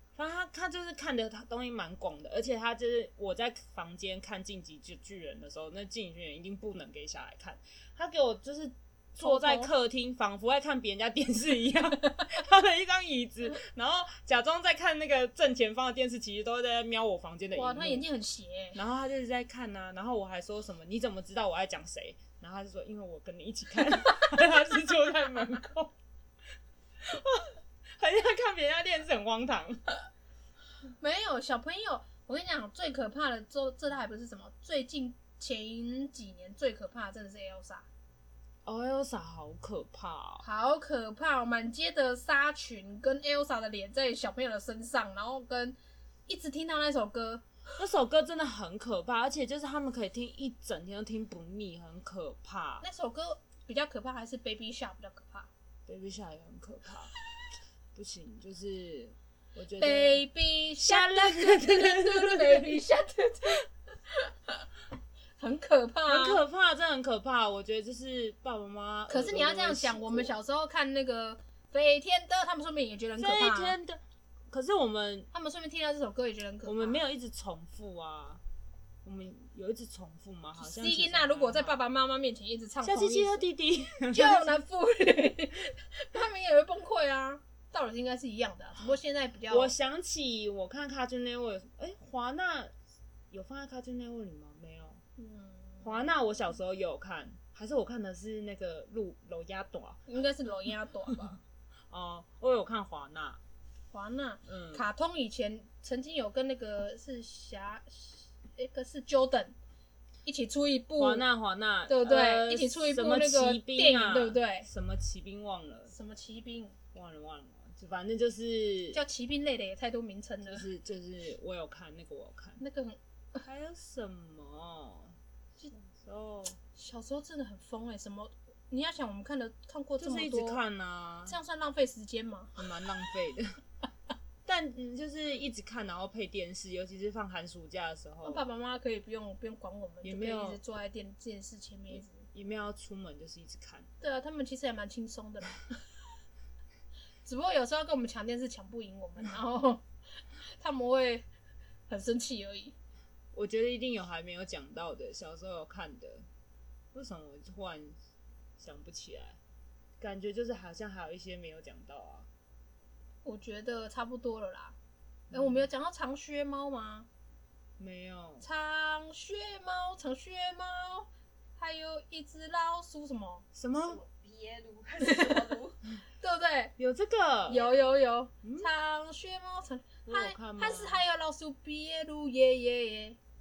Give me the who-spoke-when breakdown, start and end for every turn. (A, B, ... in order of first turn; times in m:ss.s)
0:00.2-0:18.0 A
0:09.2-0:09.7 B
0:17.5-0:18.8 B
0:18.7-0:25.9 A
0:27.0-0:29.8 A
0:31.0-0:37.9 B
0:38.6-0:40.4 A
0:40.4-0:47.4 B
0:47.8-0:52.8 A
0:52.8-0:55.5 B
0:55.9-0:57.1 A
0:57.9-1:00.2 A
0:59.8-1:04.6 B
1:00.8-1:02.8 A
1:05.4-1:06.4 B
1:06.1-1:10.3 A
1:09.1-1:13.8 B
1:13.2-1:15.3 A
1:15.3-1:17.0 B
1:16.6-1:18.4 A
1:19.0-1:21.8 A
1:20.6-1:23.4 B
1:22.8-1:24.6 A
1:24.1-1:29.7 B
1:29.5-1:32.7 A
1:33.3-1:35.0 A
1:35.2-1:36.1 B
1:35.8-1:40.1 A
1:40.1-1:41.4 B
1:41.9-1:43.4 A
1:43.9-1:49.5 B
1:44.4-1:44.8 A
1:50.2-1:51.2 B
1:51.0-1:55.9 A
1:51.9-1:54.7 B
1:55.9-1:56.7 B
1:56.9-1:59.0 A
1:58.9-2:00.6 B
2:00.4-2:02.6 A
2:02.6-2:03.4 B
2:03.4-2:05.1 A
2:05.7-2:06.6 A
2:06.7-2:10.6 B
2:10.0-2:11.4 A
2:11.3-2:12.6 B
2:12.6-2:13.6 A
2:14.4-2:18.4 A
2:18.2-2:22.3 B
2:20.0-2:20.6 A
2:21.9-2:23.9 A
2:24.0-2:25.8 B
2:27.2-2:29.8 B
2:30.4-2:31.3 B
2:31.9-2:32.7 B
2:33.3-2:36.2 A
2:36.9-2:38.0 A
2:38.6-2:39.4 A
2:40.0-2:42.3 A
2:43.2-2:44.7 B
2:45.3-2:45.7 A
2:45.3-2:47.1 B
2:47.8-2:48.4 A
2:48.4-2:53.4 B
2:53.5-2:54.0 A
2:53.8-2:55.8 C
2:55.0-2:55.5 B
2:56.2-2:56.7 B
2:56.8-2:57.7 A
2:57.5-3:03.2 B
2:58.4-2:58.7 A
3:00.0-3:01.0 A